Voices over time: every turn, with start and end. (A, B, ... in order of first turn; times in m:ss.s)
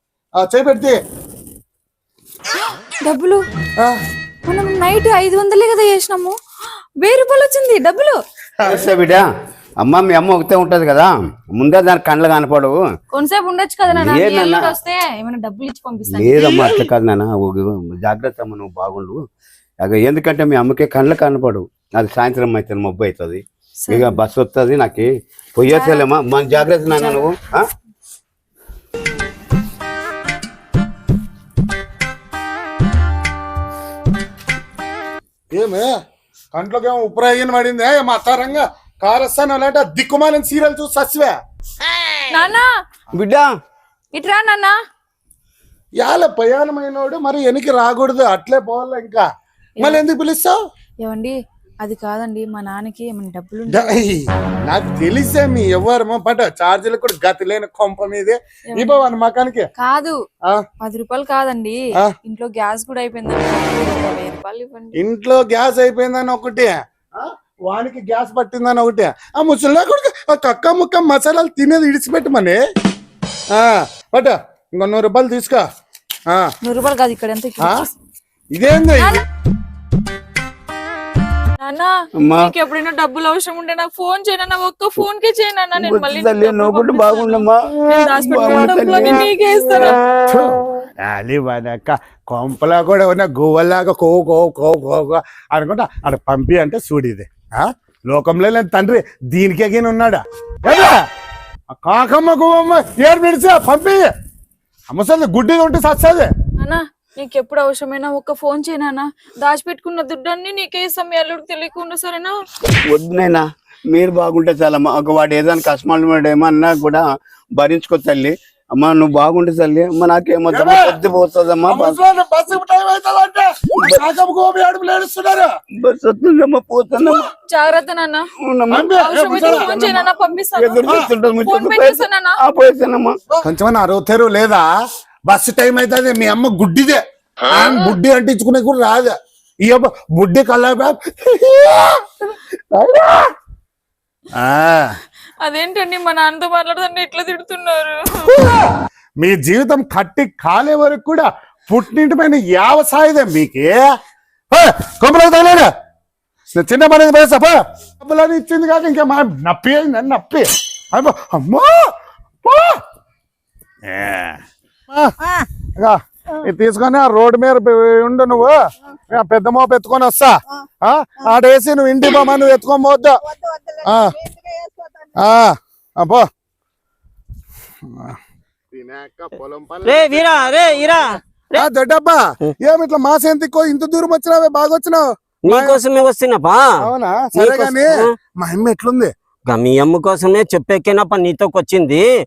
0:00.4-0:01.0 A
0:03.0-0:03.4 B
0:04.5-0:06.4 B
0:07.0-0:08.2 B
0:08.6-0:09.3 C
0:09.8-0:12.8 C
0:13.1-0:16.6 B
0:13.9-0:14.8 C
0:16.1-0:19.2 C
0:19.8-0:27.6 C
0:23.8-0:24.2 B
0:25.7-0:27.3 B
0:35.5-0:35.9 A
0:36.5-0:41.3 A
0:42.3-0:42.7 B
0:43.1-0:43.5 C
0:44.1-0:44.8 B
0:46.0-0:49.2 A
0:49.8-0:50.6 A
0:51.0-0:54.0 B
0:53.7-0:59.6 A
0:58.7-0:59.1 B
0:59.8-1:00.2 B
1:00.8-1:05.0 B
1:05.0-1:12.6 A
1:13.6-1:15.6 A
1:16.6-1:17.9 B
1:18.5-1:19.2 A
1:19.0-1:19.2 B
1:21.6-1:30.0 B
1:22.2-1:22.5 C
1:25.8-1:29.3 C
1:30.3-1:41.0 A
1:41.7-1:44.1 A
1:44.9-1:46.3 A
1:46.6-1:52.4 B
1:52.9-1:57.1 C
1:57.6-2:02.0 C
2:00.5-2:00.9 A
2:01.7-2:05.5 A
2:05.8-2:07.2 C
2:07.5-2:08.3 B
2:08.4-2:08.9 C
2:08.7-2:10.0 A
2:08.9-2:10.9 B
2:09.4-2:09.7 C
2:10.6-2:13.2 C
2:11.4-2:12.3 B
2:13.4-2:14.6 A
2:15.3-2:19.1 A
2:19.6-2:23.3 A
2:24.4-2:24.9 A
2:25.4-2:28.0 B
2:28.3-2:33.8 A
2:34.5-2:35.7 A
2:36.5-2:41.8 A
2:42.4-2:42.8 A
2:43.9-2:45.2 A
2:45.8-2:48.6 A
2:49.1-2:53.2 A
2:53.8-2:54.2 A
2:55.2-2:56.3 A
2:57.9-2:58.2 A
2:58.7-3:05.8 A
2:59.8-3:01.7 D
3:05.5-3:06.6 D
3:06.8-3:09.1 A
3:07.4-3:08.1 D
3:09.5-3:12.0 D